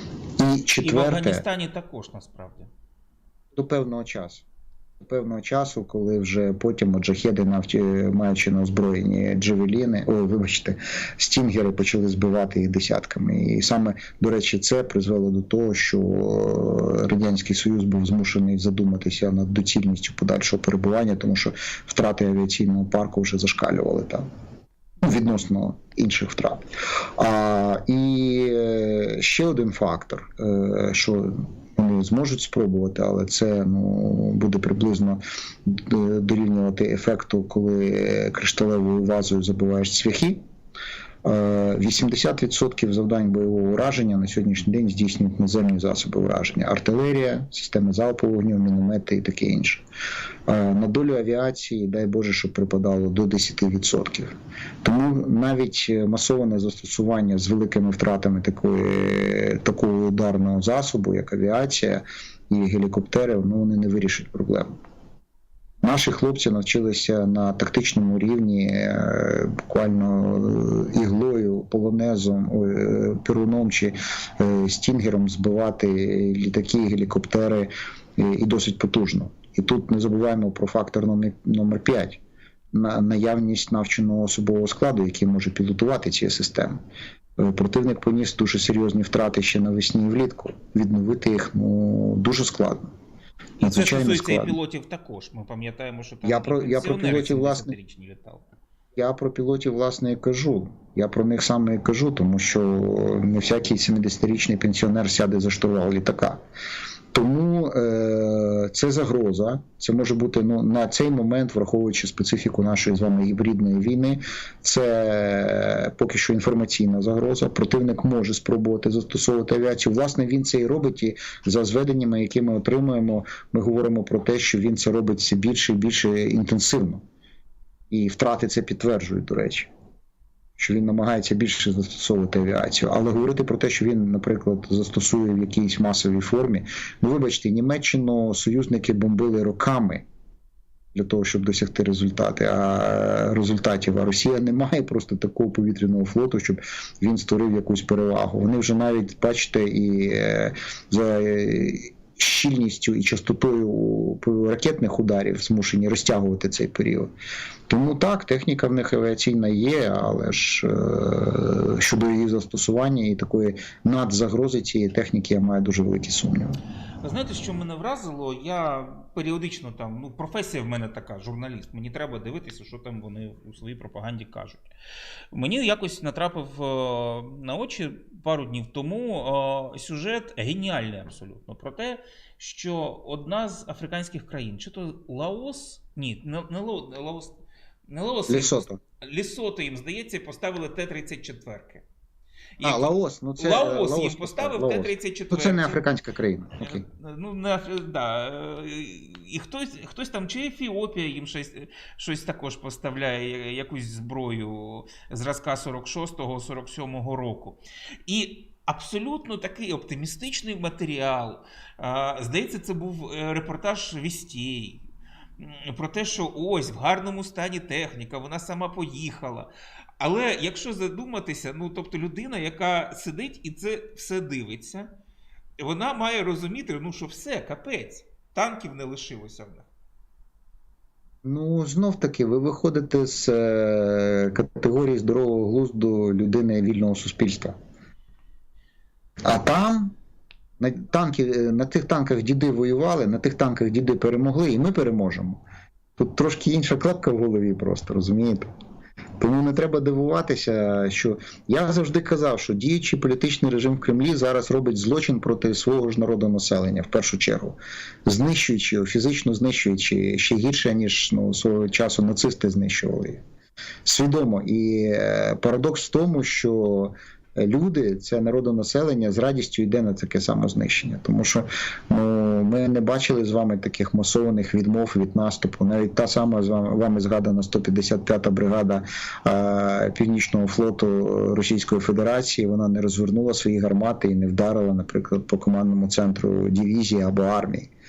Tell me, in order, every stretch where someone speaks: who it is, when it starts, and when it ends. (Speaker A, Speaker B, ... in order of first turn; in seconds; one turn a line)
Speaker A: 0.4-1.4
Speaker B: 0.8-2.7
Speaker A: 3.5-4.5
Speaker A: 5.0-24.2
Speaker A: 25.0-40.4
Speaker A: 41.2-49.9
Speaker A: 50.5-64.7
Speaker A: 65.8-82.2
Speaker A: 82.7-86.8
Speaker A: 87.4-92.9
Speaker B: 93.6-98.5
Speaker A: 93.6-94.6
Speaker A: 96.2-97.8
Speaker A: 99.0-106.4
Speaker A: 107.1-127.0
Speaker A: 127.9-129.7
Speaker A: 130.6-140.1
Speaker A: 140.9-157.1
Speaker A: 157.7-166.6
Speaker B: 167.0-174.7
Speaker B: 175.3-187.3
Speaker B: 187.9-191.8
Speaker A: 188.3-188.8
Speaker B: 192.6-195.8
Speaker A: 192.6-196.8
Speaker B: 196.6-214.9
Speaker B: 215.4-224.9
Speaker B: 225.6-229.7
Speaker A: 231.2-237.6
Speaker A: 239.2-239.9
Speaker A: 240.6-245.4
Speaker A: 246.0-248.5
Speaker A: 249.2-263.2
Speaker A: 263.9-287.7